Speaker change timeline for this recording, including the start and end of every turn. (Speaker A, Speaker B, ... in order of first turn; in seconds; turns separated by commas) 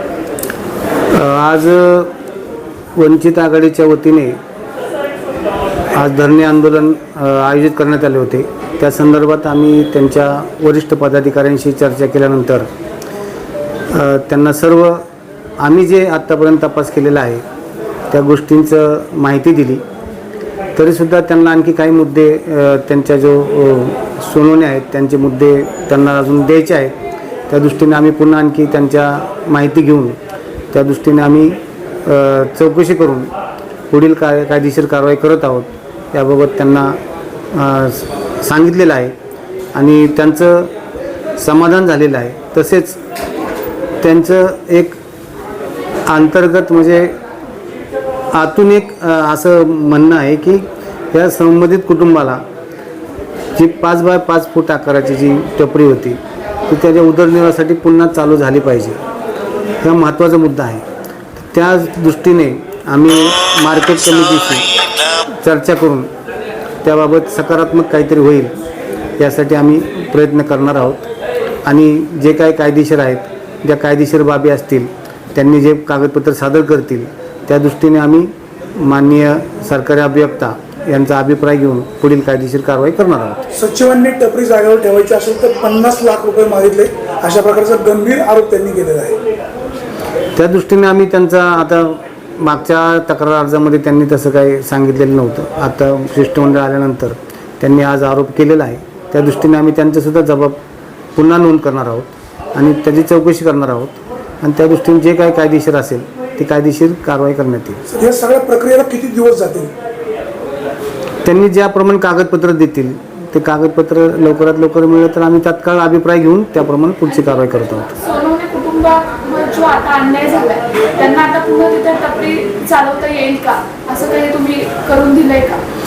Speaker A: 1.1-2.1, Speaker A: 3.0-4.4, Speaker A: 5.9-12.7, Speaker A: 13.9-15.0, Speaker A: 15.6-17.4, Speaker A: 18.1-19.8, Speaker A: 20.8-27.0, Speaker A: 27.5-30.2, Speaker A: 30.7-33.3, Speaker A: 33.9-37.0, Speaker A: 37.5-39.1, Speaker A: 39.7-40.7, Speaker A: 41.4-43.0, Speaker A: 44.0-45.0, Speaker A: 46.1-47.1, Speaker A: 48.3-52.4, Speaker A: 53.6-59.0, Speaker A: 59.8-60.9, Speaker A: 61.4-66.1, Speaker A: 66.8-68.5, Speaker A: 69.2-71.1, Speaker A: 71.7-83.4, Speaker B: 83.5-89.2, Speaker A: 90.4-100.6, Speaker A: 101.2-107.8, Speaker B: 107.9-109.7, Speaker A: 111.2-118.0, Speaker C: 118.0-125.6